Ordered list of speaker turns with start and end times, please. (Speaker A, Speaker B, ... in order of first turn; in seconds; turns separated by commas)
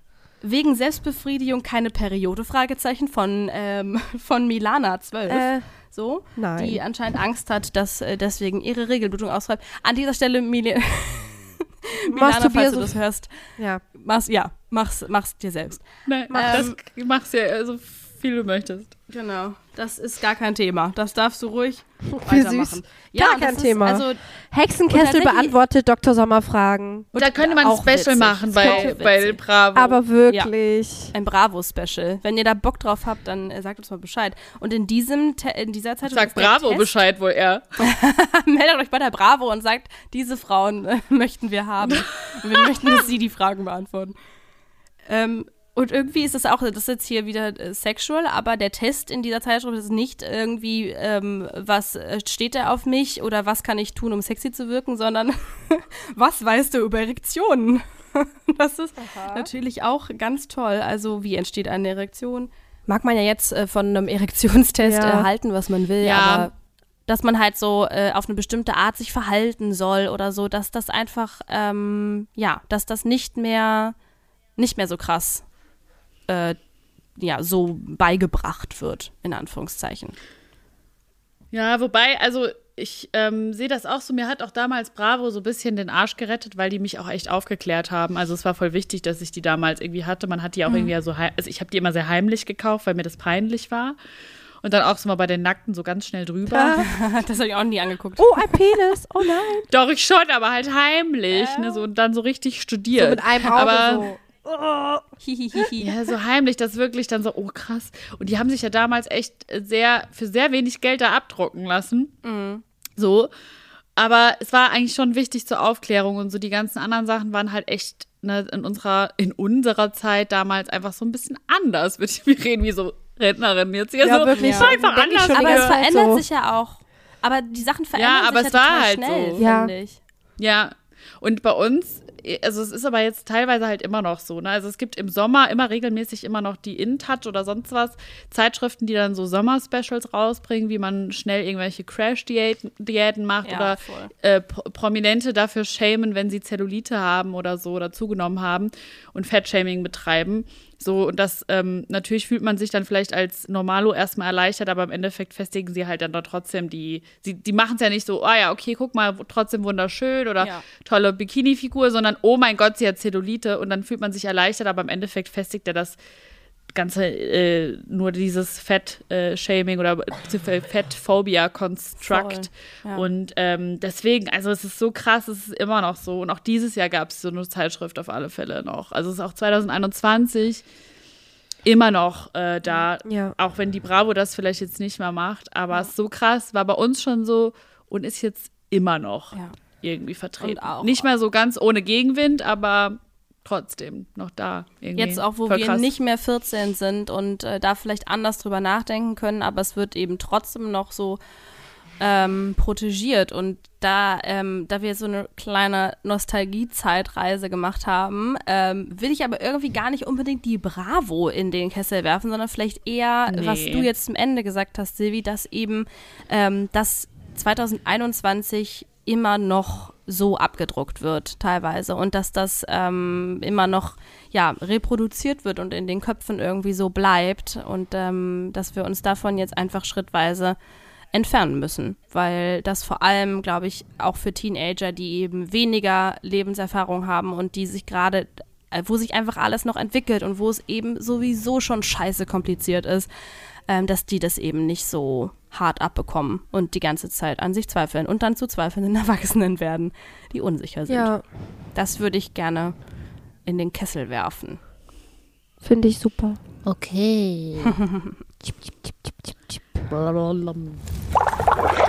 Speaker A: 0.4-16.7, Speaker B: 5.3-5.7, Speaker B: 6.4-6.8, Speaker B: 12.1-13.0, Speaker B: 13.6-13.8, Speaker C: 16.1-18.9, Speaker B: 16.3-16.7, Speaker A: 19.1-24.2, Speaker B: 22.1-29.0, Speaker A: 24.9-25.6, Speaker C: 27.1-30.0, Speaker A: 27.2-29.4, Speaker B: 29.7-31.1, Speaker A: 31.1-36.9, Speaker C: 36.1-37.6, Speaker A: 37.8-44.1, Speaker C: 41.9-42.7, Speaker A: 45.1-66.5, Speaker B: 59.0-59.5, Speaker B: 64.8-65.3, Speaker C: 66.0-66.5, Speaker A: 67.1-74.0, Speaker A: 74.6-75.5, Speaker A: 76.3-76.6, Speaker A: 77.2-80.2, Speaker C: 81.5-94.0, Speaker C: 94.6-96.9, Speaker B: 96.5-96.8, Speaker A: 96.8-98.6, Speaker B: 98.2-99.7, Speaker C: 99.7-104.1, Speaker A: 101.3-101.8, Speaker B: 103.0-104.4, Speaker A: 105.2-105.9, Speaker C: 105.8-112.1, Speaker A: 112.2-112.6, Speaker C: 113.0-113.3, Speaker C: 114.0-125.8, Speaker B: 124.0-126.2, Speaker A: 124.4-124.7, Speaker A: 125.3-130.0, Speaker C: 128.0-129.4, Speaker B: 129.4-129.7, Speaker C: 130.4-166.0, Speaker A: 143.4-144.1, Speaker C: 166.7-180.6, Speaker A: 172.0-173.1, Speaker C: 181.6-195.9, Speaker B: 183.1-183.3, Speaker A: 189.3-189.6, Speaker A: 190.4-191.1, Speaker A: 194.9-201.2, Speaker A: 202.0-230.6, Speaker C: 213.3-213.9, Speaker A: 231.1-243.1, Speaker A: 243.7-252.8, Speaker B: 250.9-251.2, Speaker A: 253.4-254.6, Speaker B: 255.6-256.4, Speaker D: 256.7-257.8, Speaker B: 258.5-259.6, Speaker D: 259.9-260.8